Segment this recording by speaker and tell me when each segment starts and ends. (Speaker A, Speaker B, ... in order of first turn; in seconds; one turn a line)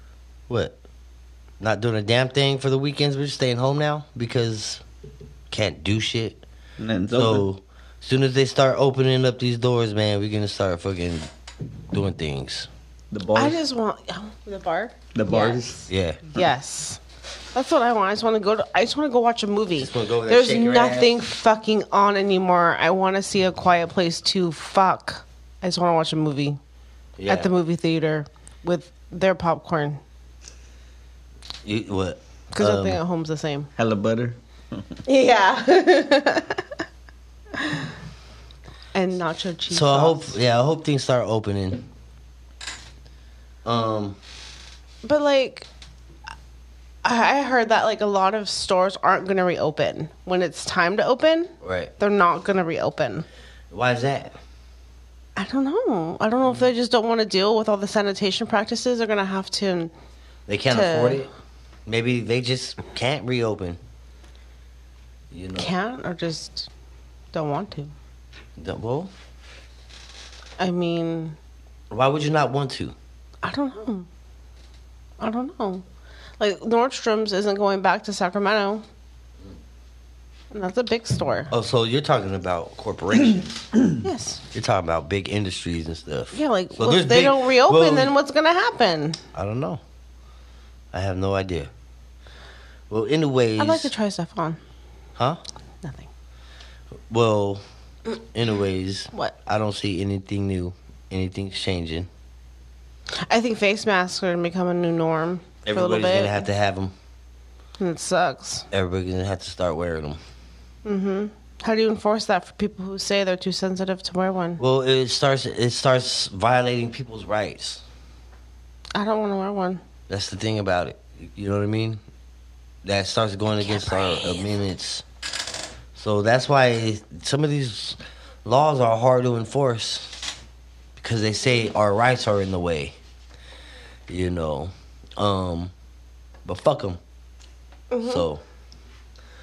Speaker A: 0.5-0.8
Speaker A: 1.6-4.8
Speaker A: 5.5-6.4
Speaker B: 6.8-7.5
Speaker A: 7.1-11.3
Speaker A: 11.9-12.7
Speaker B: 13.1-13.6
Speaker C: 13.3-17.0
Speaker B: 15.2-15.8
Speaker A: 15.9-16.2
Speaker C: 17.5-26.6
Speaker A: 19.8-21.1
Speaker A: 27.2-27.5
Speaker C: 27.3-30.0
Speaker A: 31.6-33.0
Speaker C: 32.5-33.7
Speaker B: 33.8-34.9
Speaker C: 35.1-36.7
Speaker C: 37.6-37.9
Speaker C: 38.9-40.4
Speaker A: 39.7-41.9
Speaker A: 43.6-44.2
Speaker C: 45.0-45.7
Speaker C: 47.0-53.3
Speaker A: 51.6-51.9
Speaker A: 53.7-54.4
Speaker C: 55.4-59.9
Speaker A: 60.5-61.3
Speaker C: 60.7-61.3
Speaker A: 61.9-63.8
Speaker A: 65.3-65.7
Speaker C: 65.6-66.7
Speaker C: 67.3-67.9
Speaker A: 68.6-69.1
Speaker C: 70.6-71.4
Speaker A: 71.9-73.0
Speaker C: 73.4-74.1
Speaker C: 75.2-75.8
Speaker C: 76.4-78.8
Speaker C: 80.5-81.5
Speaker A: 81.5-83.7
Speaker C: 84.0-84.4
Speaker A: 84.5-88.1
Speaker C: 86.3-89.2
Speaker A: 89.3-89.8
Speaker A: 90.9-91.7
Speaker A: 92.9-93.9
Speaker C: 93.6-94.6
Speaker C: 95.8-96.1
Speaker A: 97.1-97.6
Speaker A: 98.2-102.1
Speaker C: 103.3-106.4
Speaker A: 105.7-106.9
Speaker C: 107.8-108.7
Speaker A: 108.7-110.2
Speaker C: 110.8-114.6
Speaker A: 114.6-117.8
Speaker C: 119.0-119.8
Speaker A: 120.1-122.0
Speaker A: 122.8-125.0
Speaker C: 123.6-124.5
Speaker A: 126.0-130.2
Speaker A: 131.0-132.9
Speaker A: 134.1-135.7
Speaker A: 136.4-137.0
Speaker C: 137.9-138.2
Speaker A: 138.0-138.4